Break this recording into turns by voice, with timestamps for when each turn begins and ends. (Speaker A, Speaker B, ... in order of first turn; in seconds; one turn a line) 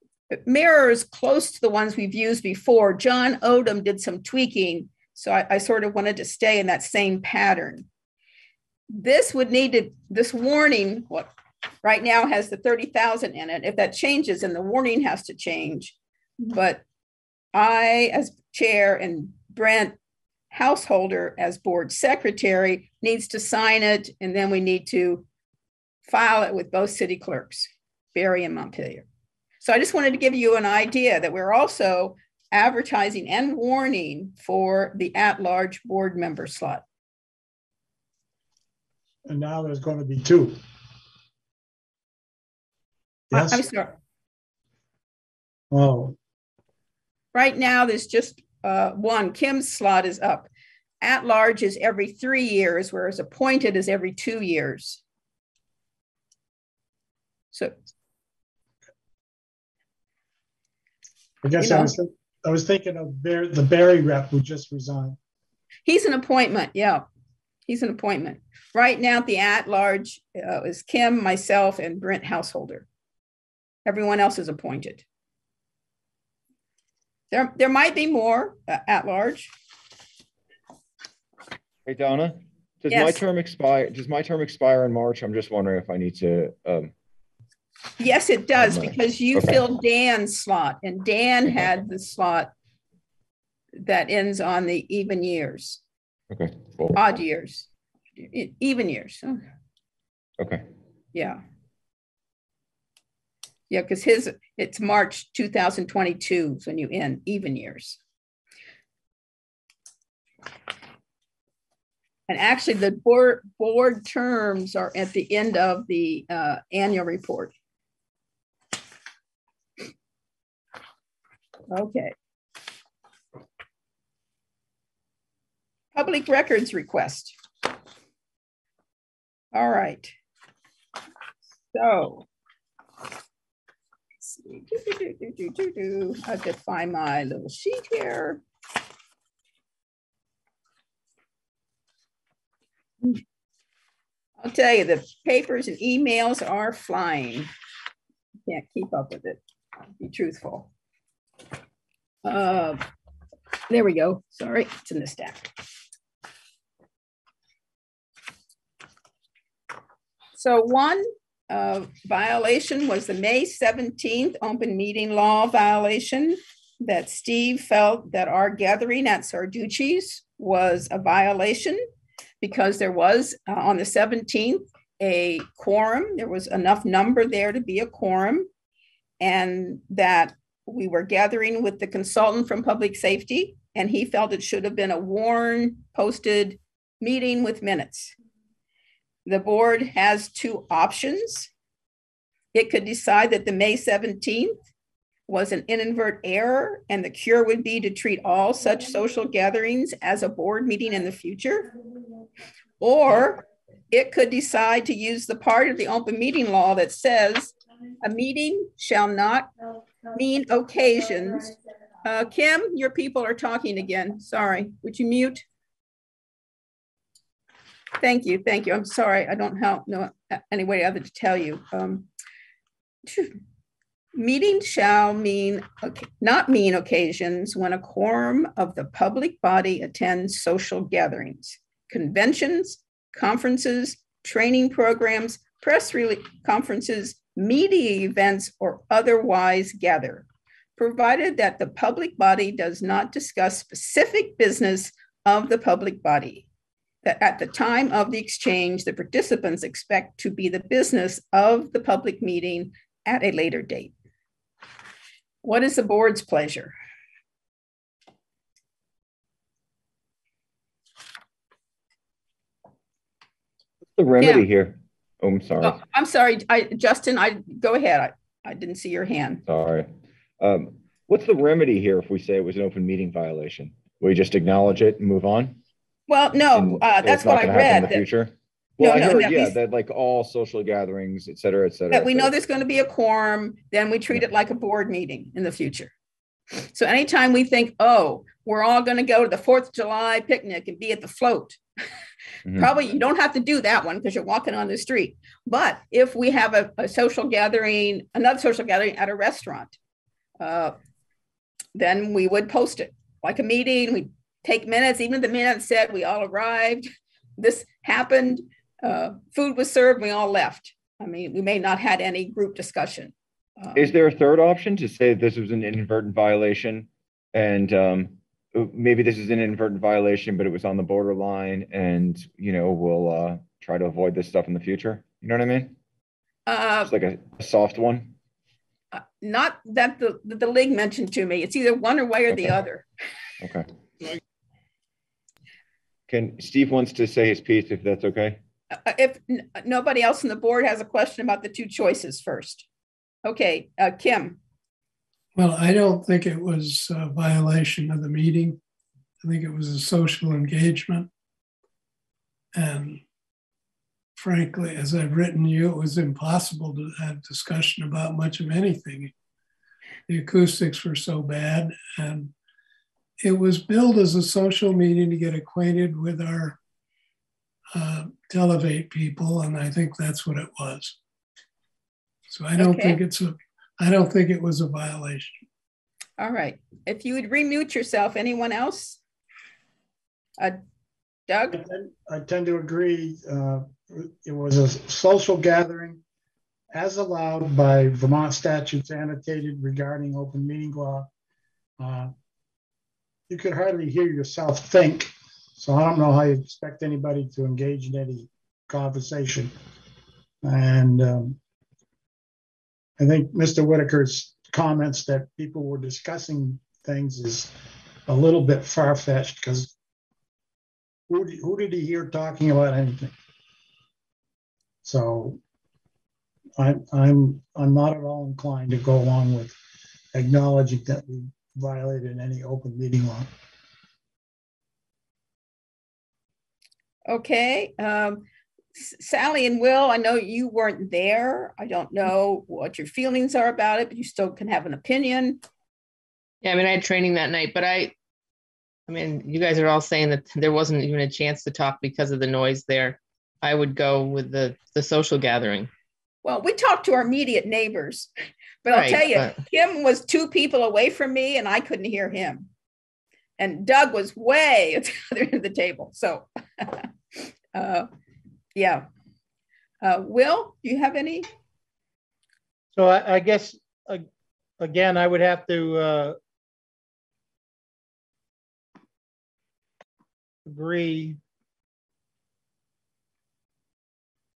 Speaker A: 0.3-7.8
Speaker A: 8.9-11.3
Speaker A: 11.8-16.8
Speaker A: 17.5-19.9
Speaker A: 20.5-25.2
Speaker A: 26.1-29.1
Speaker A: 29.6-36.8
Speaker B: 39.2-40.6
Speaker B: 43.3-43.7
Speaker A: 43.3-43.9
Speaker B: 45.7-46.1
Speaker A: 47.3-50.5
Speaker A: 51.0-55.0
Speaker B: 61.4-65.2
Speaker A: 61.6-61.9
Speaker A: 65.9-67.0
Speaker A: 67.7-72.9
Speaker A: 73.8-75.0
Speaker A: 77.3-79.5
Speaker C: 81.8-86.9
Speaker A: 82.9-83.2
Speaker A: 88.0-92.5
Speaker C: 88.6-89.6
Speaker A: 93.8-95.8
Speaker C: 96.3-97.0
Speaker A: 96.9-97.7
Speaker A: 98.2-99.4
Speaker C: 100.4-100.6
Speaker A: 101.1-101.4
Speaker A: 103.7-108.0
Speaker A: 112.3-117.5
Speaker A: 121.7-122.1
Speaker A: 125.9-127.3
Speaker A: 129.5-130.1
Speaker A: 131.7-132.2
Speaker A: 134.2-138.4
Speaker A: 144.4-147.5
Speaker A: 148.5-149.4
Speaker A: 150.0-150.7
Speaker A: 152.2-152.8
Speaker A: 153.7-155.5
Speaker A: 160.4-171.8
Speaker A: 172.4-178.5
Speaker A: 179.2-188.1
Speaker A: 189.2-191.5
Speaker A: 192.5-194.6
Speaker A: 195.3-201.7
Speaker A: 202.8-209.5
Speaker A: 210.1-211.5
Speaker A: 212.0-215.4
Speaker A: 218.0-222.1
Speaker A: 223.1-223.4
Speaker A: 224.2-240.2
Speaker A: 240.8-246.5
Speaker A: 247.0-253.9
Speaker A: 255.4-256.7
Speaker C: 264.0-265.8
Speaker A: 264.2-264.4
Speaker A: 265.6-269.4
Speaker C: 269.4-275.6
Speaker A: 276.1-278.0
Speaker C: 276.5-282.3
Speaker A: 278.8-279.5
Speaker A: 281.9-285.9
Speaker A: 286.7-291.6
Speaker A: 292.6-299.8
Speaker A: 300.4-300.7
Speaker A: 301.7-313.9
Speaker C: 313.7-325.7
Speaker A: 326.5-326.9
Speaker C: 326.8-328.1
Speaker A: 328.9-332.8
Speaker C: 333.4-333.7
Speaker C: 336.1-338.4
Speaker A: 338.8-342.6
Speaker A: 343.2-344.4
Speaker D: 345.4-348.6
Speaker D: 349.2-351.1
Speaker D: 352.5-353.0
Speaker D: 354.1-359.1
Speaker D: 360.1-362.3
Speaker D: 363.2-366.6
Speaker D: 367.7-371.0
Speaker D: 372.3-375.3
Speaker A: 372.6-373.0
Speaker A: 376.2-379.0
Speaker A: 381.3-381.6
Speaker B: 381.5-386.0
Speaker B: 386.7-391.1
Speaker B: 391.8-392.1
Speaker B: 393.3-399.5
Speaker B: 400.4-401.4
Speaker B: 403.0-407.5
Speaker B: 408.1-409.7
Speaker B: 411.1-413.1
Speaker B: 414.8-415.4
Speaker B: 416.6-419.6
Speaker B: 420.1-423.3
Speaker A: 427.1-428.2
Speaker A: 428.8-435.4
Speaker E: 436.4-437.9
Speaker E: 438.9-445.7
Speaker A: 446.2-448.1
Speaker A: 448.6-452.5
Speaker E: 448.7-449.4
Speaker A: 453.4-457.9
Speaker A: 458.5-458.9
Speaker A: 459.8-461.3
Speaker F: 462.7-464.0
Speaker F: 464.6-466.1
Speaker F: 470.4-471.2